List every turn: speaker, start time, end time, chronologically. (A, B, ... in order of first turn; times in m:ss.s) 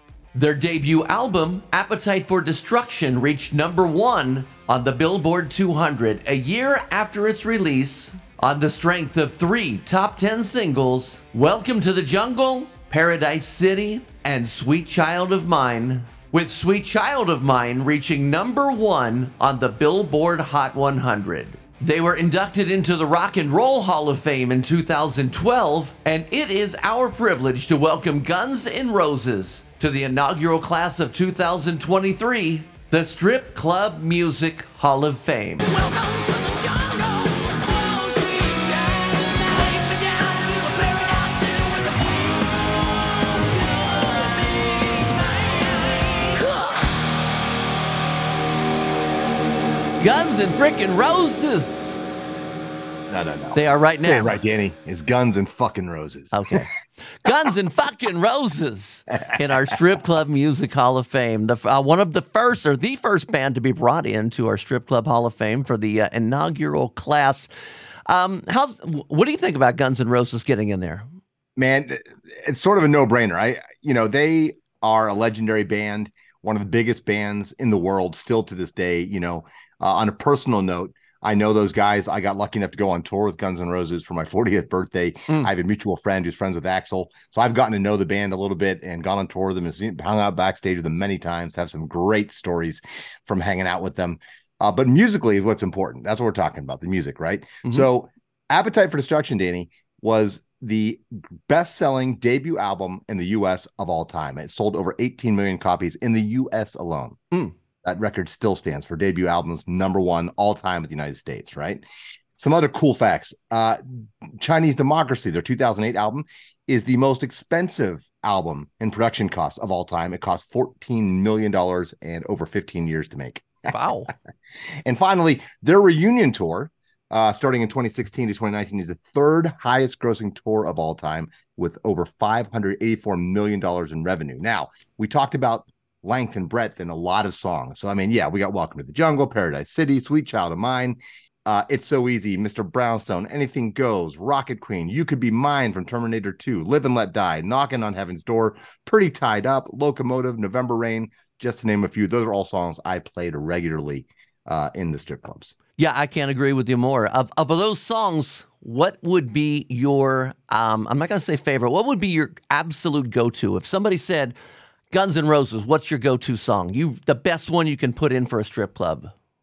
0:00.3-0:35.8 A
0:39.7-0:40.2 A
0:50.0-0:52.0 A
0:53.1-0:56.7 B
0:53.6-0:54.4 A
0:56.3-1:07.5 A
1:08.1-1:11.1 A
1:11.6-1:47.2 B
1:47.8-1:51.8 B
1:52.4-2:03.5 B
2:03.7-2:04.1 A
2:04.8-2:35.6 B
2:35.8-2:44.4 A
2:44.9-2:49.1 A